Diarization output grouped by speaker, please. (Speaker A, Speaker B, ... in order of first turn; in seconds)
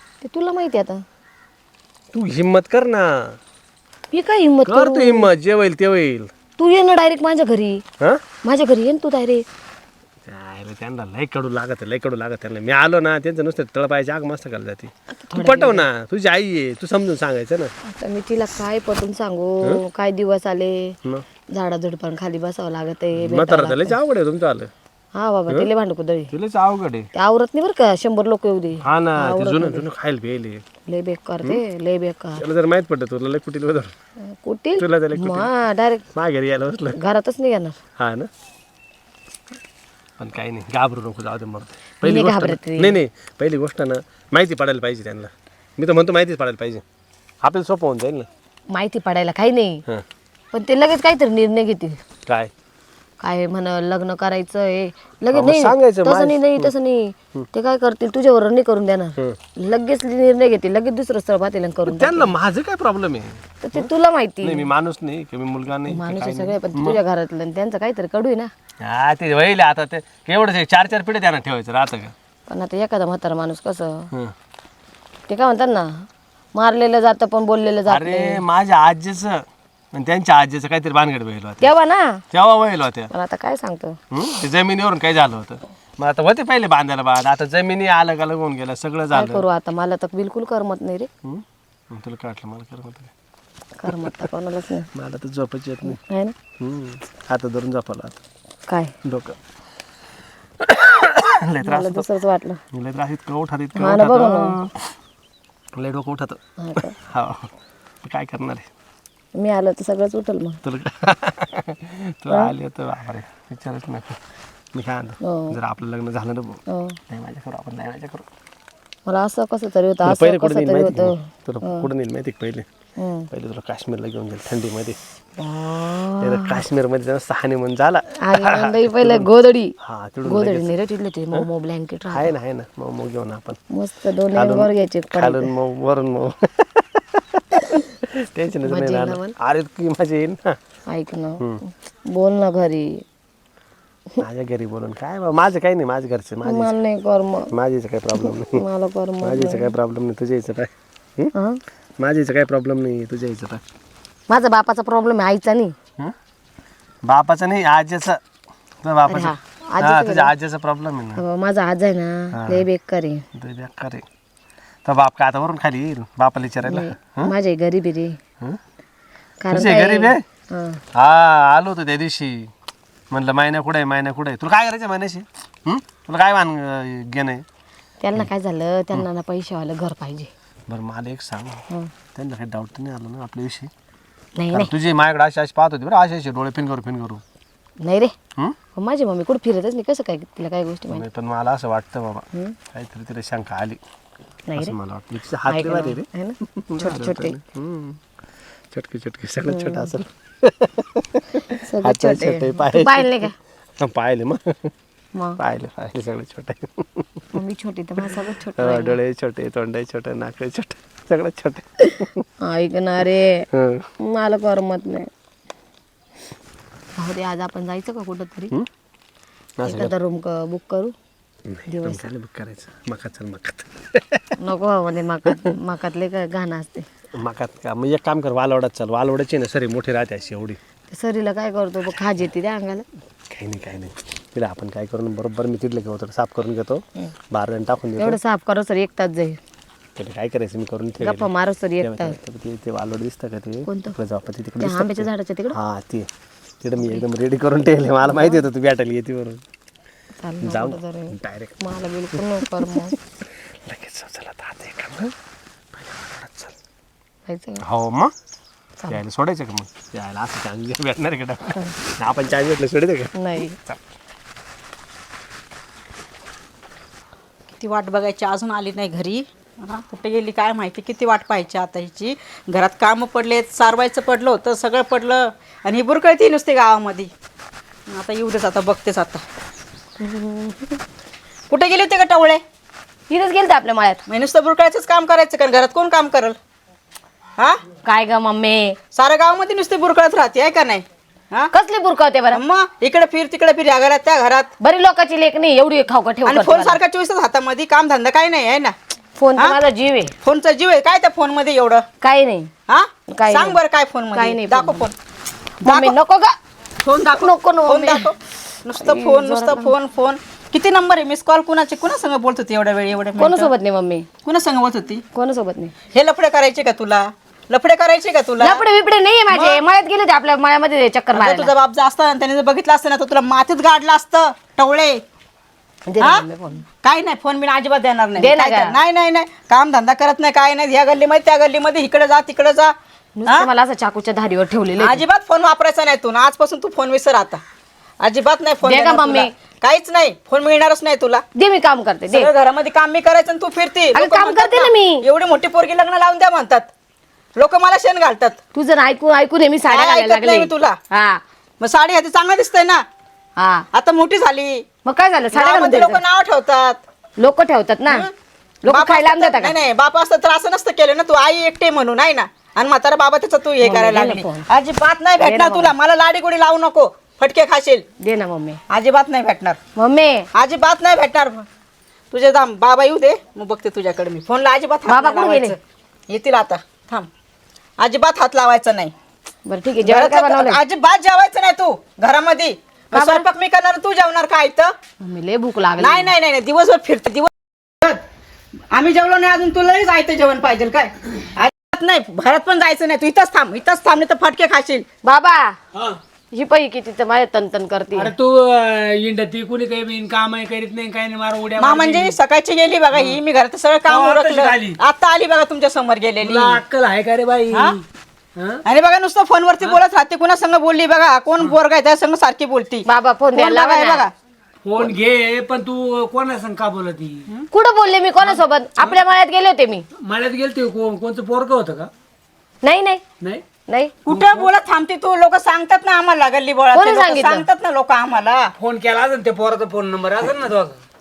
Speaker A: 0.2-1.0, 4.1-5.3, 6.6-7.8, 8.4-9.4, 15.3-15.8, 17.9-21.0, 21.5-24.0, 25.2-26.3, 27.2-29.8, 30.9-32.4, 34.4-36.0, 37.0-37.8, 42.0-43.0, 48.7-49.8, 50.5-52.0, 53.2-62.3, 63.6-64.7, 65.9-68.5, 72.5-74.0, 75.3-75.9, 76.5-78.4, 81.6-82.2, 83.1-84.0, 89.1-91.1, 93.8-94.9, 95.9-96.3, 98.7-98.9, 101.6-102.6, 103.8-104.5, 106.6-106.9, 109.4-110.6, 115.2-115.6, 116.7-117.0, 119.1-121.9, 123.0-123.3, 125.4-126.6, 128.2-129.7, 130.3-132.3, 133.7-135.5, 138.7-139.3, 140.9-143.0, 146.5-147.5, 148.2-149.7, 151.3-151.6, 154.3-155.7, 159.1-160.3, 161.2-163.2, 166.6-168.2, 169.4-170.8, 178.0-180.3, 184.4-184.7, 187.8-188.1, 188.8-191.0, 194.5-194.8, 195.5-197.4, 199.5-200.0, 201.6-203.3, 207.3-209.0, 212.4-213.4, 214.1-215.1, 217.0-218.5, 219.7-220.9, 221.7-222.1, 224.4-226.9, 230.9-232.9, 238.0-239.4, 241.0-242.2, 243.7-243.9, 244.6-245.6, 246.8-247.1, 248.1-248.4, 250.2-252.9, 257.3-257.6, 263.2-263.6, 280.0-280.8, 283.1-284.0, 287.9-288.8, 291.5-292.4, 294.6-296.8, 299.2-300.1, 302.0-302.5, 303.1-303.6, 304.1-304.9, 305.6-306.3, 307.2-308.1, 308.8-309.7, 313.2-314.1, 315.1-315.7, 318.4-321.5, 325.9-326.6, 328.2-328.8, 333.2-335.0, 338.6-339.3, 341.4-342.3, 343.9-345.1, 348.5-351.2, 353.4-353.6, 354.9-356.0, 357.2-358.1, 358.6-359.5, 363.6-364.4, 365.2-365.7, 368.0-368.6, 369.8-370.3, 374.9-375.6, 379.5-380.6, 382.9-383.3, 385.1-386.1, 395.0-395.6, 396.3-398.1, 412.9-414.1, 417.5-419.8, 422.6-423.0, 423.7-423.9, 426.7-427.4
Speaker B: 2.1-3.4, 4.7-6.3, 10.3-17.7, 23.2-24.7, 26.3-27.1, 28.8-30.6, 32.4-33.9, 34.8-35.5, 36.1-37.0, 38.0-38.3, 40.2-46.8, 47.4-48.3, 55.3-56.7, 61.9-63.9, 64.4-67.0, 68.8-72.1, 77.9-81.7, 82.3-83.1, 84.1-89.4, 91.2-93.1, 95.0-96.0, 96.6-98.2, 99.0-99.4, 100.6-102.1, 102.7-104.7, 105.7-106.4, 106.9-107.5, 108.0-108.7, 110.6-114.2, 114.7-118.2, 120.0-122.7, 123.3-125.0, 126.2-129.3, 129.8-130.7, 132.1-133.6, 134.3-137.4, 138.2-140.6, 144.2-146.8, 147.5-148.7, 149.2-151.3, 152.0-153.6, 157.1-158.2, 158.8-161.2, 162.4-162.7, 163.3-164.1, 164.8-167.3, 169.5-170.2, 170.9-172.5, 173.1-177.4, 180.7-181.6, 182.2-183.7, 184.5-187.2, 190.9-193.8, 194.6-198.0, 198.7-203.2, 203.8-204.7, 205.4-207.1, 208.6-212.2, 213.5-213.9, 219.6-219.9, 221.5-224.3, 227.2-230.6, 233.3-238.2, 240.0-246.1, 246.6-249.4, 250.4-251.6, 252.1-253.0, 253.7-255.1, 255.7-256.5, 257.6-258.1, 258.9-263.8
Speaker C: 267.6-277.1, 277.9-279.2, 281.5-282.4, 284.1-286.4, 288.9-291.5, 292.3-294.5, 296.2-298.8, 300.2-301.9, 302.7-304.9, 305.6-305.9, 306.8-313.5, 314.2-315.0, 315.9-318.6, 319.3-319.6, 321.1-325.0, 326.8-332.8, 334.8-337.4, 338.0-341.2, 342.1-346.7, 347.4-348.4, 349.7-350.8, 351.6-352.8, 353.7-354.6, 355.3-356.8, 358.7-367.9, 368.7-369.6, 370.4-371.5, 372.1-375.6, 376.1-377.1, 377.8-378.9, 379.9-384.7, 385.8-388.0, 388.7-394.9, 401.6-406.6, 407.5-407.8, 408.7-414.1, 424.1-428.5
Speaker D: 397.9-402.2, 402.9-403.2, 403.9-404.8, 406.2-407.8, 408.4-408.6, 414.6-417.5, 418.2-418.9, 420.0-421.9, 424.1-424.5, 428.6-430.8